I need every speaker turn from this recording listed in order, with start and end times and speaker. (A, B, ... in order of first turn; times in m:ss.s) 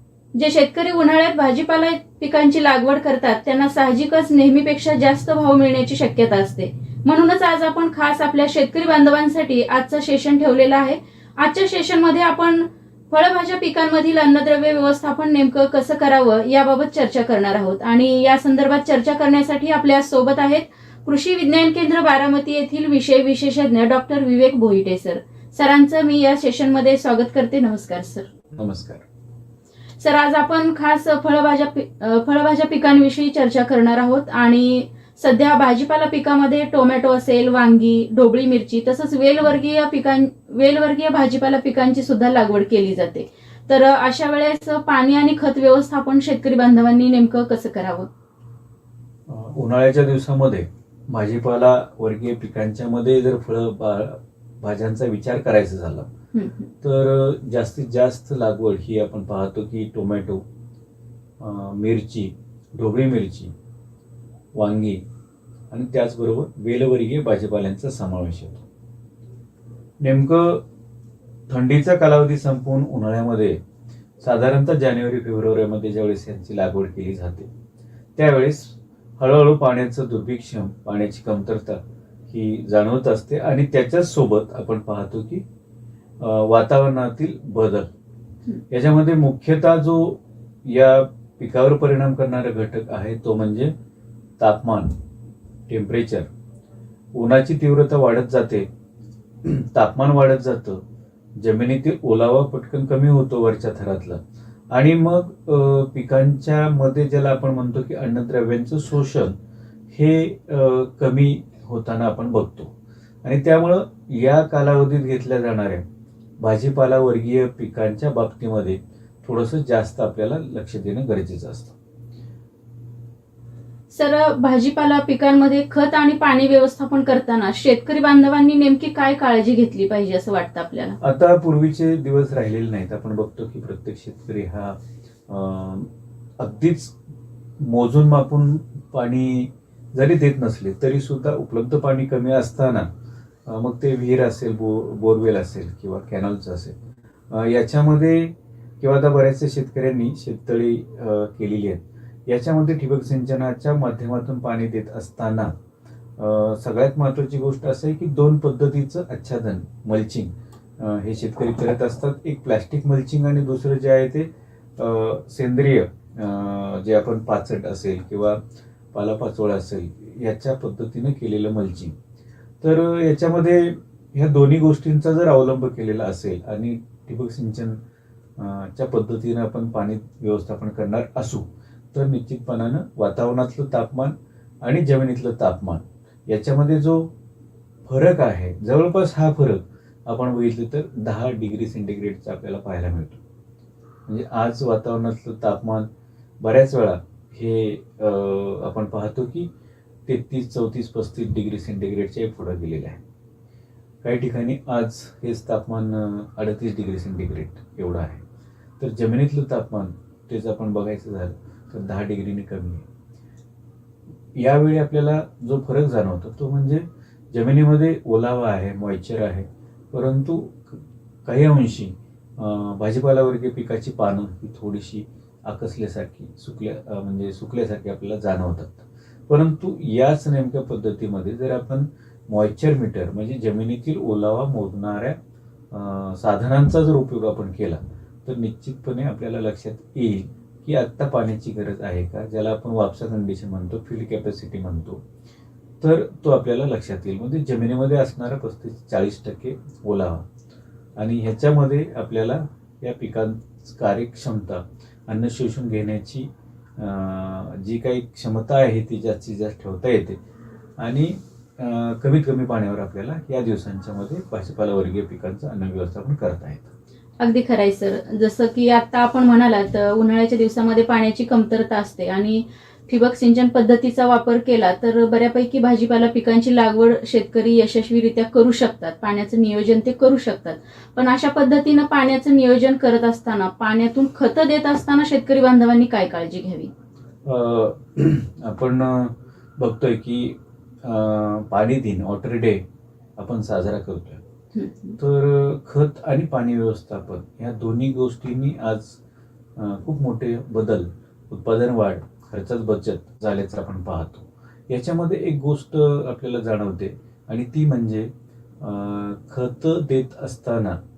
0:00.3-0:28.3 A
0:28.5-0:29.0 B
0:30.0-0:48.1 A
0:49.3-0:56.1 B
0:56.3-0:56.7 A
0:56.8-1:00.4 B
1:01.4-1:03.5 B
1:04.5-1:05.0 B
1:05.7-1:08.6 B
1:10.0-1:10.6 B
1:11.5-1:13.6 B
1:14.2-1:17.5 B
1:18.2-1:25.4 B
1:26.2-1:27.9 B
1:28.7-1:33.7 B
1:34.4-1:34.9 B
1:35.7-1:36.3 B
1:37.1-1:38.7 B
1:39.4-1:40.8 B
1:41.4-1:49.3 B
1:49.9-1:52.7 B
1:53.2-1:55.8 B
1:56.4-2:01.8 B
2:03.9-2:11.0 A
2:11.0-2:14.8 B
2:15.3-2:16.9 B
2:17.6-2:22.9 B
2:23.4-2:26.8 B
2:27.3-2:35.5 B
2:36.2-2:48.4 B
2:48.9-2:51.9 B
2:52.6-2:57.8 B
2:58.4-3:07.1 B
3:07.8-3:13.2 B
3:14.0-3:15.9 B
3:16.4-3:19.5 B
3:20.0-3:23.0 B
3:24.0-3:28.2 B
3:28.8-3:32.8 B
3:34.3-3:55.2 B
3:55.7-4:05.0 B
4:05.8-4:10.2 B
4:11.0-4:20.2 B
4:20.8-4:26.7 B
4:27.2-4:46.7 A
4:47.2-4:52.6 B
4:53.2-4:54.2 B
4:54.5-4:55.0 A
4:55.0-4:59.0 B
4:59.6-5:08.1 B
5:08.6-5:10.8 B